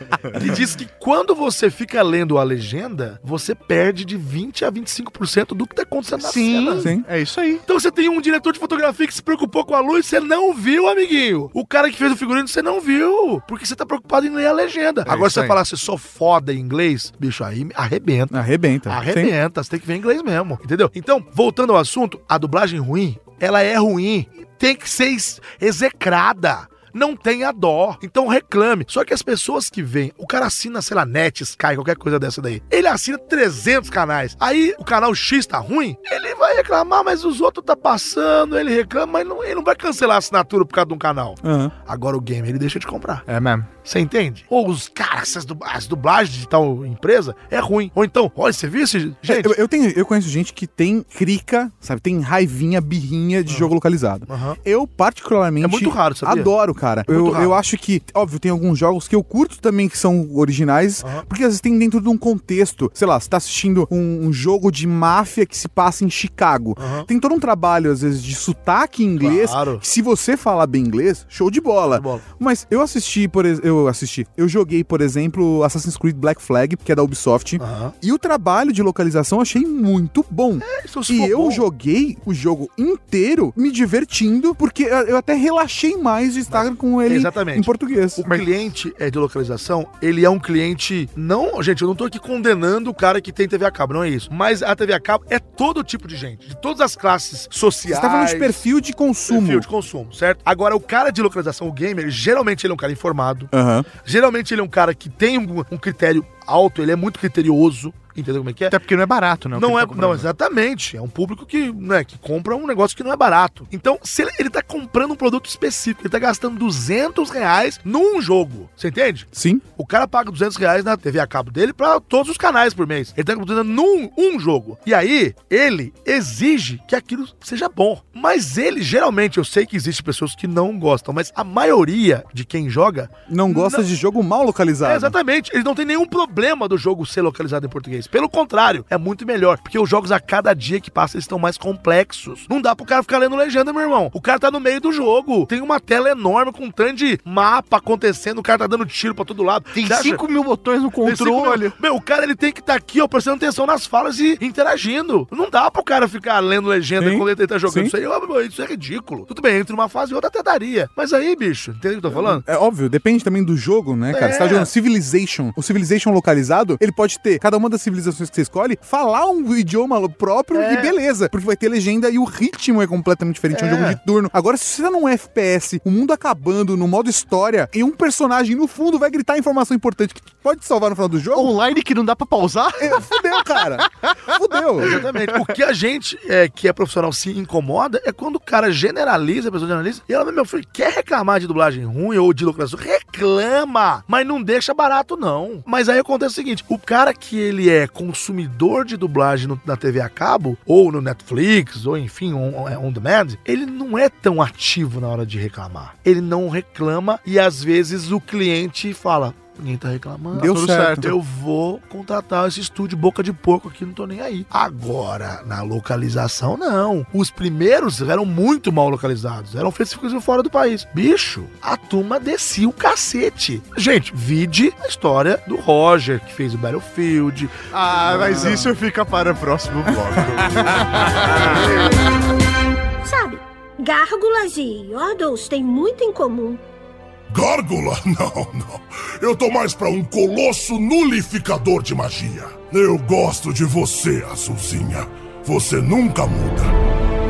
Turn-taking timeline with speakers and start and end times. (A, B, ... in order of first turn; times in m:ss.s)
0:00.3-0:06.9 A
0:06.2-0:07.6 B
0:06.8-0:07.0 C
0:07.7-0:18.3 A
0:15.1-0:15.6 B
0:18.3-0:19.3 C
0:18.9-0:43.2 A
0:41.4-0:41.7 C
0:43.3-0:43.7 B
0:43.8-0:49.6 A
0:49.2-1:28.2 C
0:54.3-0:54.6 A
0:55.6-0:56.5 A
0:57.1-0:57.6 A
1:01.0-1:01.3 A
1:06.8-1:07.1 A
1:09.2-1:09.8 A
1:11.9-1:12.2 A
1:17.6-1:18.0 A
1:20.6-1:21.7 A
1:26.5-1:38.6 A
1:37.9-1:39.7 C
1:39.3-1:43.5 A
1:43.5-1:43.9 C
1:44.0-1:48.8 A
1:48.7-1:50.3 B
1:49.6-2:13.9 A
1:59.4-1:59.6 C
2:13.3-2:15.2 C
2:14.8-2:30.2 A
2:29.7-2:31.7 B
2:31.0-2:42.4 A
2:37.0-2:37.9 C
2:42.1-3:01.6 C
2:44.1-2:44.7 A
2:50.5-2:51.0 A
2:53.5-2:54.0 A
3:01.3-3:03.8 B
3:02.8-3:05.0 C
3:04.8-3:05.1 B
3:04.8-3:48.7 A
3:30.3-3:31.1 C
3:30.5-3:31.1 B
3:47.7-3:51.8 B
3:53.0-3:56.6 D
3:57.3-4:06.7 E